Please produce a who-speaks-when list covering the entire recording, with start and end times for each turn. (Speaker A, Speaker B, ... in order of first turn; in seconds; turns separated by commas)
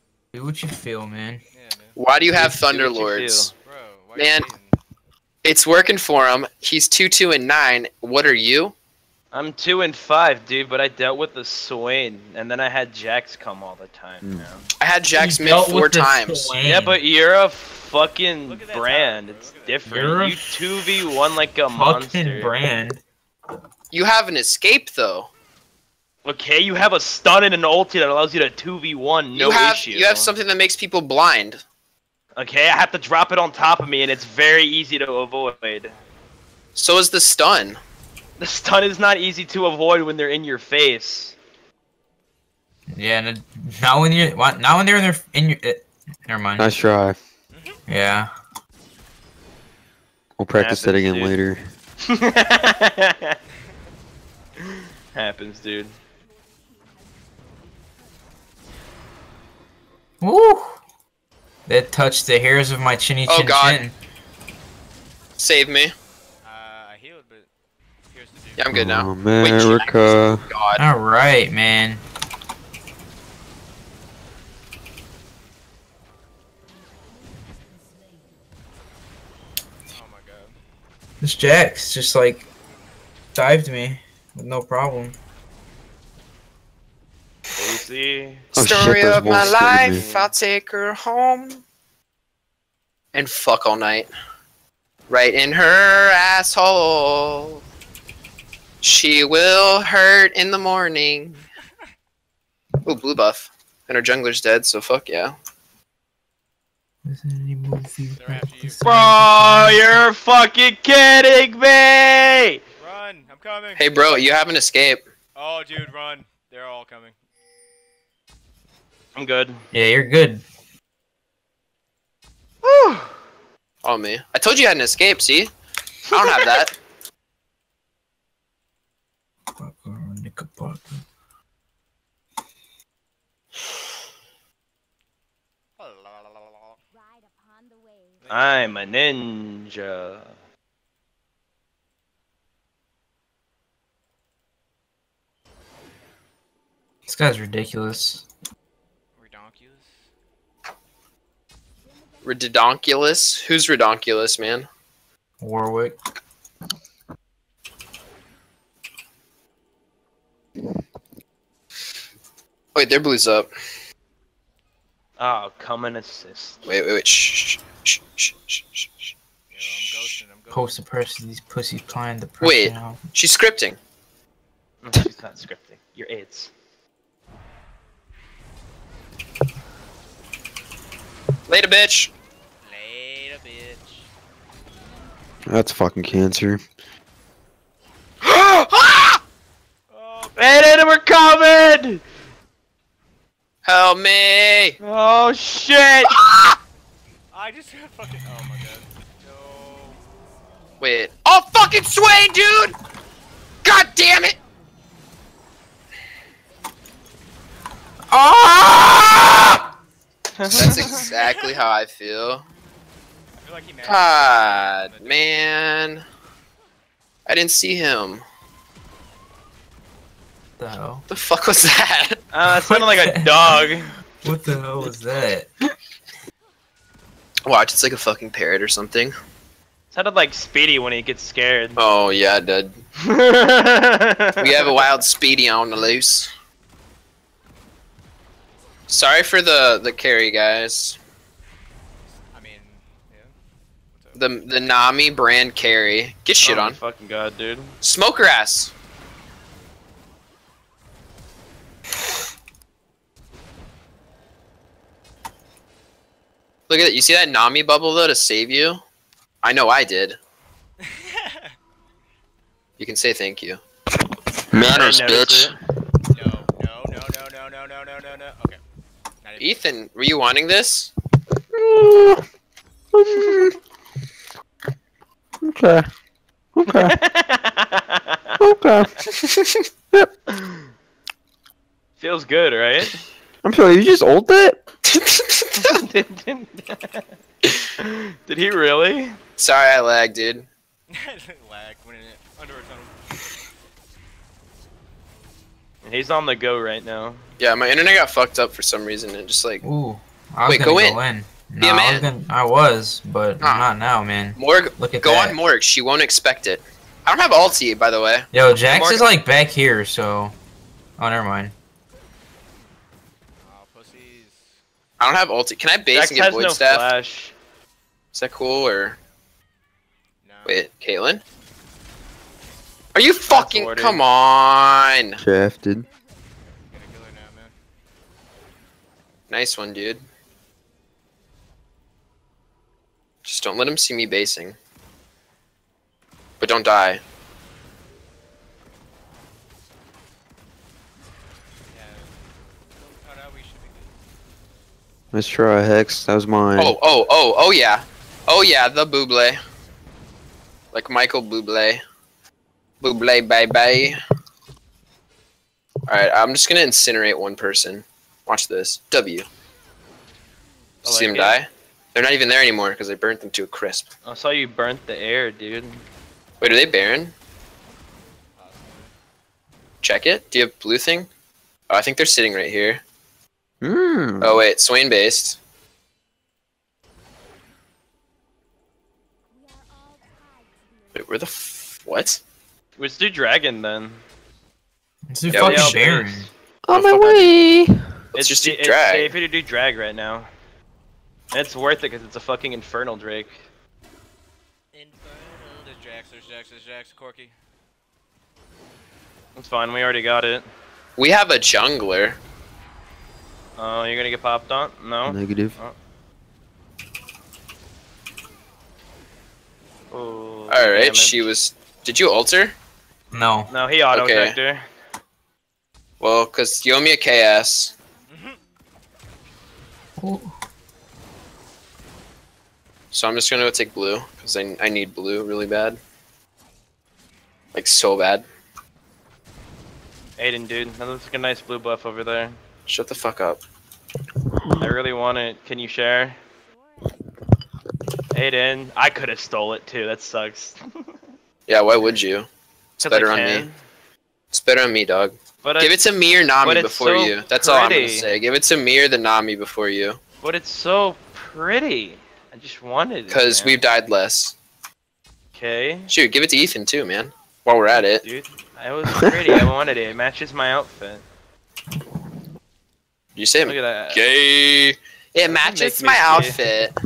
Speaker A: 0.3-1.4, Speaker B: 1.5-2.0, Speaker C: 2.0-3.5, Speaker D: 2.3-3.5, Speaker B: 3.6-4.8, Speaker C: 4.2-4.5, Speaker C: 5.4-8.7, Speaker D: 9.3-14.7, Speaker C: 14.8-16.5, Speaker A: 15.1-17.0, Speaker D: 16.6-22.5, Speaker B: 18.5-19.9, Speaker A: 19.9-20.5, Speaker A: 21.7-23.0, Speaker C: 23.9-25.3, Speaker D: 26.2-30.3, Speaker C: 29.3-31.6, Speaker D: 32.4-36.0, Speaker C: 36.8-37.8, Speaker D: 38.4-41.4, Speaker A: 42.9-46.7, Speaker E: 46.6-47.2, Speaker B: 47.5-47.8, Speaker A: 47.9-48.3, Speaker E: 50.4-51.6, Speaker D: 50.5-51.4, Speaker D: 52.0-53.4, Speaker D: 54.6-56.0, Speaker A: 60.2-60.8, Speaker A: 61.7-63.9, Speaker C: 63.3-63.8, Speaker C: 65.4-65.9, Speaker B: 66.4-67.5, Speaker B: 68.1-68.7, Speaker C: 68.6-70.8, Speaker E: 68.7-70.4, Speaker A: 70.8-72.0, Speaker B: 79.9-80.6, Speaker A: 81.2-82.4, Speaker A: 83.3-85.2, Speaker D: 87.5-88.5, Speaker E: 88.5-90.0, Speaker C: 88.6-91.6, Speaker D: 89.4-90.3, Speaker C: 93.1-94.1, Speaker C: 95.1-97.6, Speaker C: 98.8-101.4, Speaker C: 102.8-105.3, Speaker A: 107.0-109.8, Speaker B: 108.1-109.1, Speaker D: 108.8-112.6, Speaker B: 112.8-114.0, Speaker C: 113.8-115.0, Speaker B: 115.3-117.2, Speaker D: 119.1-119.6, Speaker A: 119.7-120.4, Speaker D: 122.6-123.2, Speaker C: 123.8-125.5, Speaker C: 126.1-126.7, Speaker D: 126.2-126.6, Speaker A: 129.6-131.0, Speaker B: 135.8-136.8, Speaker B: 138.2-138.9, Speaker D: 138.3-140.3, Speaker A: 147.1-148.2, Speaker B: 149.1-150.1, Speaker C: 152.2-154.7, Speaker A: 155.4-156.0, Speaker C: 162.7-163.5, Speaker D: 165.2-166.6, Speaker C: 166.6-168.9, Speaker B: 169.5-170.8, Speaker A: 170.5-173.0, Speaker C: 172.4-173.8, Speaker D: 174.8-176.5, Speaker C: 181.5-182.1, Speaker B: 182.6-184.1, Speaker E: 185.5-186.6, Speaker C: 188.2-189.2, Speaker B: 189.9-190.4, Speaker D: 190.4-192.0, Speaker C: 193.6-194.8, Speaker D: 194.8-196.2, Speaker C: 196.1-196.6, Speaker B: 197.3-200.0, Speaker C: 200.8-202.8, Speaker C: 203.6-204.4, Speaker A: 208.1-209.6, Speaker D: 210.3-211.1, Speaker C: 210.5-212.4, Speaker B: 211.2-211.6, Speaker B: 213.4-215.4, Speaker C: 213.8-216.0, Speaker C: 217.3-218.2, Speaker A: 220.6-221.0, Speaker C: 221.1-222.2, Speaker D: 222.3-223.9, Speaker A: 222.5-223.6, Speaker A: 224.2-225.5, Speaker C: 227.4-229.1, Speaker D: 229.9-231.8, Speaker C: 231.8-232.8, Speaker D: 233.0-234.5, Speaker C: 234.4-236.3, Speaker C: 238.9-241.0, Speaker B: 242.1-243.3, Speaker B: 243.9-244.3, Speaker C: 244.1-246.8, Speaker D: 246.4-247.8, Speaker C: 247.8-248.7, Speaker C: 256.7-258.8, Speaker C: 259.4-260.2, Speaker B: 260.8-261.6, Speaker C: 262.8-263.6, Speaker E: 264.5-265.5, Speaker C: 264.6-265.2, Speaker D: 264.7-265.5, Speaker B: 266.1-268.6, Speaker B: 269.2-269.6, Speaker C: 269.4-270.9, Speaker E: 271.5-272.2, Speaker E: 272.9-273.6, Speaker E: 275.4-275.9, Speaker E: 276.6-277.0, Speaker D: 276.7-278.4, Speaker E: 278.4-279.0, Speaker D: 282.0-283.0, Speaker E: 283.4-284.6, Speaker C: 284.9-285.6, Speaker D: 285.5-287.1, Speaker D: 287.8-289.2, Speaker C: 289.4-290.5, Speaker B: 290.9-292.9, Speaker D: 295.8-297.3, Speaker C: 297.4-299.6, Speaker A: 299.6-305.4, Speaker C: 300.5-301.0, Speaker C: 301.6-302.1, Speaker C: 303.4-303.7, Speaker C: 304.4-308.3, Speaker A: 308.3-310.3, Speaker D: 308.7-309.1, Speaker A: 311.0-311.5, Speaker B: 313.4-314.6, Speaker C: 315.0-316.8, Speaker D: 315.9-317.3, Speaker C: 318.1-319.0, Speaker B: 320.2-320.6, Speaker C: 320.4-321.2, Speaker C: 322.9-325.2, Speaker D: 323.3-324.0, Speaker E: 325.2-325.9, Speaker B: 326.7-327.5, Speaker C: 329.3-330.0, Speaker C: 333.2-334.6, Speaker C: 336.4-337.0, Speaker B: 341.7-344.0, Speaker E: 345.1-346.8, Speaker C: 346.6-349.4, Speaker C: 350.7-351.8, Speaker C: 352.8-354.0, Speaker C: 355.9-359.2, Speaker D: 360.8-361.4, Speaker C: 360.8-363.9, Speaker D: 364.0-365.8, Speaker C: 366.4-367.1, Speaker B: 368.3-368.9, Speaker C: 369.8-371.1, Speaker C: 371.7-372.8, Speaker E: 373.6-374.4, Speaker C: 374.2-375.4, Speaker C: 380.9-382.2, Speaker D: 382.8-384.0, Speaker A: 385.1-386.3, Speaker C: 385.3-385.8, Speaker D: 385.3-386.3, Speaker E: 386.6-387.9, Speaker C: 386.7-387.3, Speaker D: 388.1-390.3, Speaker C: 388.2-389.1, Speaker D: 391.3-393.4, Speaker B: 394.7-397.3, Speaker D: 399.4-400.4, Speaker C: 401.0-402.2, Speaker D: 403.6-405.7, Speaker E: 405.1-405.6, Speaker D: 409.9-411.3, Speaker C: 410.5-412.5, Speaker A: 413.1-413.5, Speaker D: 413.5-414.6, Speaker C: 413.9-414.4, Speaker C: 416.0-417.7, Speaker B: 418.1-418.4, Speaker A: 420.0-420.3, Speaker C: 422.9-425.8, Speaker C: 427.5-428.2, Speaker D: 430.2-432.4, Speaker C: 432.7-433.4, Speaker D: 434.6-436.2, Speaker D: 438.1-441.0, Speaker C: 441.5-442.3, Speaker C: 442.8-443.5, Speaker D: 442.8-443.6, Speaker C: 444.3-450.0, Speaker D: 445.4-445.8, Speaker D: 446.4-448.1, Speaker D: 450.2-453.6, Speaker C: 453.1-454.3, Speaker D: 455.3-455.9, Speaker C: 455.9-458.0, Speaker D: 458.0-461.0, Speaker C: 463.1-466.8, Speaker D: 463.4-464.0, Speaker D: 465.2-466.4